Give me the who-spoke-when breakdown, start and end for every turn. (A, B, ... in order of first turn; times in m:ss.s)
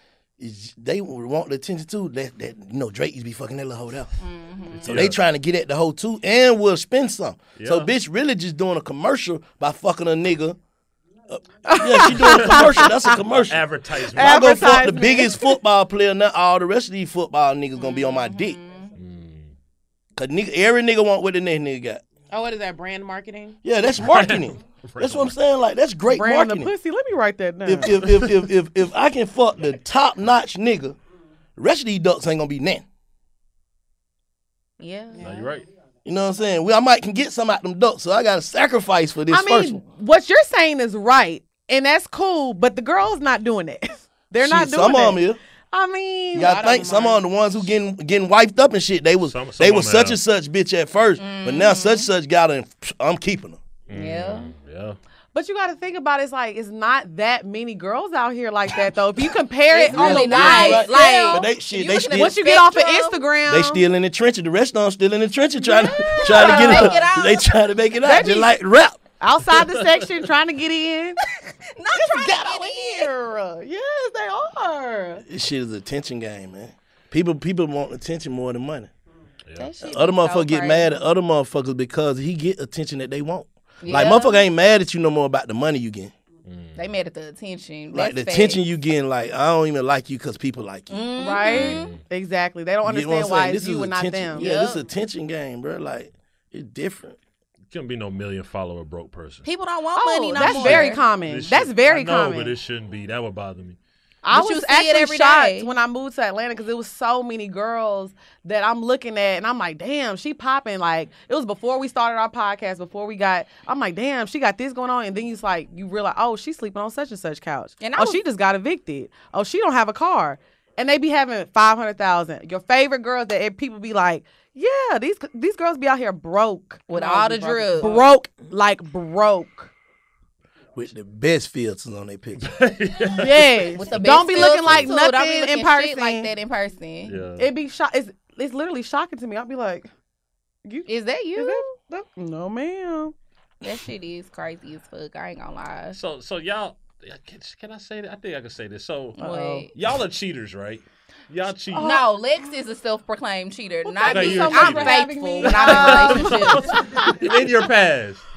0:00.4-0:04.2 A
0:04.2-0:05.1 B
0:04.7-0:05.2 C
0:04.9-0:10.6 A
0:07.6-0:07.9 C
0:11.3-0:18.6 A
0:11.7-0:13.2 D
0:12.1-0:15.0 C
0:14.1-0:15.6 D
0:17.8-0:18.9 B
0:19.0-0:19.5 C
0:20.2-0:22.0 A
0:22.3-0:23.6 E
0:23.6-0:26.7 A
0:24.0-0:25.4 C
0:26.1-0:28.0 D
0:27.6-0:31.0 A
0:28.0-0:28.3 C
0:31.6-0:32.8 A
0:34.8-0:35.2 B
0:35.2-0:35.5 D
0:35.2-0:35.7 C
0:36.0-0:39.8 A
0:39.3-0:46.6 D
0:44.4-0:45.4 A
0:46.3-0:53.6 A
0:46.4-0:47.2 E
0:49.2-0:50.2 C
0:51.2-0:52.1 B
0:53.9-0:55.0 C
0:53.9-0:54.5 B
0:55.3-1:01.5 D
0:59.8-1:03.3 B
0:59.8-1:02.4 A
1:02.1-1:03.8 D
1:03.5-1:09.0 A
1:05.6-1:07.0 D
1:06.0-1:07.6 B
1:08.0-1:08.5 D
1:09.2-1:11.2 D
1:09.6-1:10.1 C
1:11.3-1:13.1 B
1:12.0-1:15.2 D
1:15.3-1:18.9 A
1:19.6-1:20.9 B
1:19.8-1:26.1 A
1:23.8-1:24.4 B
1:26.4-1:26.8 C
1:26.8-1:28.6 B
1:27.9-1:31.0 A
1:30.9-1:31.9 B
1:31.2-1:34.5 D
1:31.5-1:32.0 C
1:32.8-1:37.2 A
1:34.4-1:34.8 B
1:37.7-1:39.5 C
1:39.4-1:41.0 B
1:40.0-1:42.6 D
1:40.4-1:43.8 C
1:44.2-2:09.7 D
1:44.3-1:45.7 B
1:57.8-1:58.2 B
2:06.9-2:08.0 B
2:07.0-2:08.1 E
2:10.8-2:12.5 A
2:12.4-2:13.8 C
2:13.1-2:16.3 D
2:13.8-2:17.2 B
2:14.4-2:14.9 C
2:17.1-2:17.5 C
2:17.4-2:19.9 D
2:20.6-2:23.1 D
2:20.9-2:21.7 B
2:23.6-2:26.0 B
2:25.9-2:29.2 C
2:29.2-2:29.7 D
2:29.2-2:29.7 B
2:29.7-2:32.0 C
2:31.7-2:32.1 D
2:31.8-2:36.8 B
2:33.8-2:37.5 D
2:34.0-2:38.2 C